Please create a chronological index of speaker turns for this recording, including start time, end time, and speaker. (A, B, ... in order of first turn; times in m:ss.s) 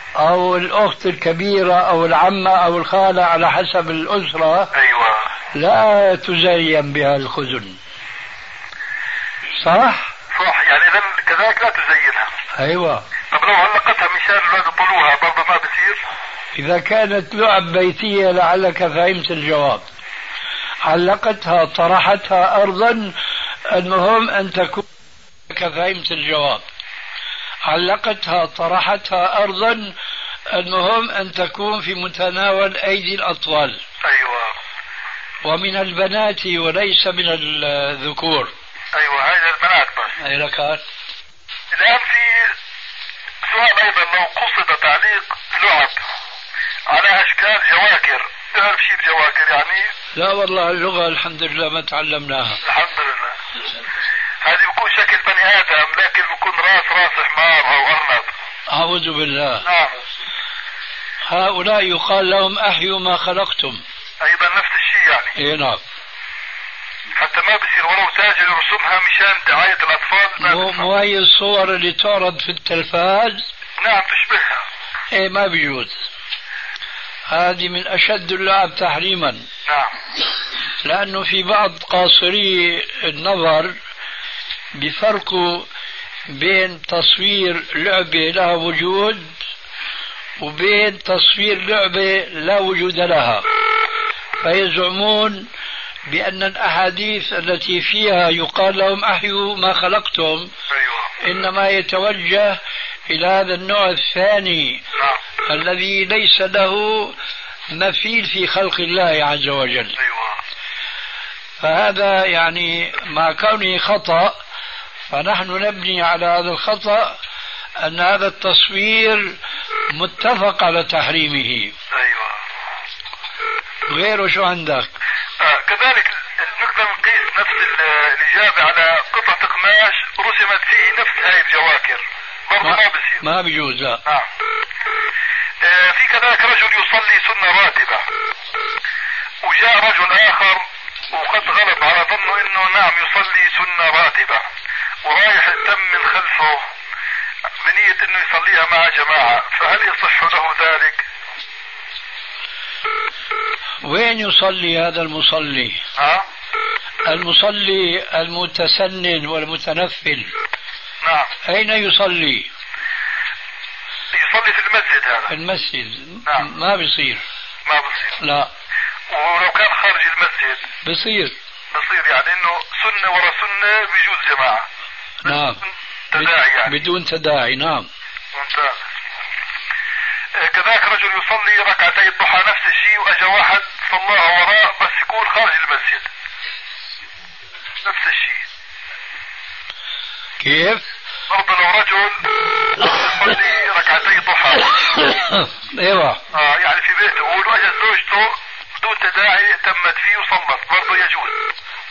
0:00.2-0:04.7 A
0:04.7-0:05.2 B
0:05.5-0:07.8 A
0:09.6-0:10.1 A
0:10.3-0:12.3 B
0:12.6-0:13.0 A
0:13.3-0:16.0 B
0:16.6-0:19.8 A
0:20.8-0:23.2 A
0:23.7-0:24.8 A
0:25.5-0:26.6 A
0:27.6-0:30.0 A
0:30.5-0:33.8 A
0:34.0-0:34.5 B
0:35.4-0:38.5 A
0:38.9-0:40.2 B
0:40.2-0:40.8 A
0:41.7-0:42.6 B
0:43.4-0:46.0 B
0:46.9-0:49.9 B
0:50.2-0:52.6 A
0:52.6-0:53.4 B
0:54.4-0:58.3 B
0:58.7-0:59.7 A
0:59.6-0:59.9 B
1:01.3-1:03.8 A
1:04.2-1:05.4 B
1:05.4-1:05.8 A
1:07.2-1:10.9 B
1:10.4-1:13.5 A
1:13.8-1:14.6 B
1:15.1-1:16.0 A
1:17.3-1:19.5 A
1:19.7-1:19.9 B
1:20.8-1:23.8 A
1:24.8-1:25.7 A
1:26.3-1:29.4 A
1:30.4-1:33.5 A
1:34.4-1:35.5 A
1:36.1-1:40.5 A
1:40.7-1:41.1 B
1:41.2-1:44.8 A
1:45.5-1:47.2 A
1:47.7-1:50.0 A
1:50.0-1:50.4 B
1:51.6-1:54.4 A
1:55.1-1:57.2 A
1:57.8-1:59.4 A
1:59.9-2:01.8 A
2:01.9-2:02.4 B
2:03.9-2:04.9 A
2:05.4-2:13.2 B
2:12.6-2:14.0 A
2:15.6-2:18.0 B
2:19.4-2:24.4 B
2:25.0-2:26.6 B
2:27.6-2:31.0 B
2:33.8-2:35.8 A
2:36.0-2:36.2 B
2:37.0-2:40.4 A
2:41.0-2:41.3 B
2:41.4-2:42.5 A
2:44.1-2:45.3 B
2:45.3-2:47.2 A
2:47.7-2:48.2 B
2:48.2-2:48.5 A
2:49.1-2:50.7 B
2:50.8-2:51.3 A
2:51.7-2:54.7 B
2:55.2-2:55.6 A
2:56.1-2:56.8 B
2:56.1-2:57.9 A
2:58.3-2:58.8 B
3:00.4-3:06.1 B
3:07.8-3:08.4 B
3:10.4-3:10.8 A
3:11.3-3:12.2 B
3:12.8-3:14.8 B
3:15.1-3:16.2 A
3:16.3-3:21.4 B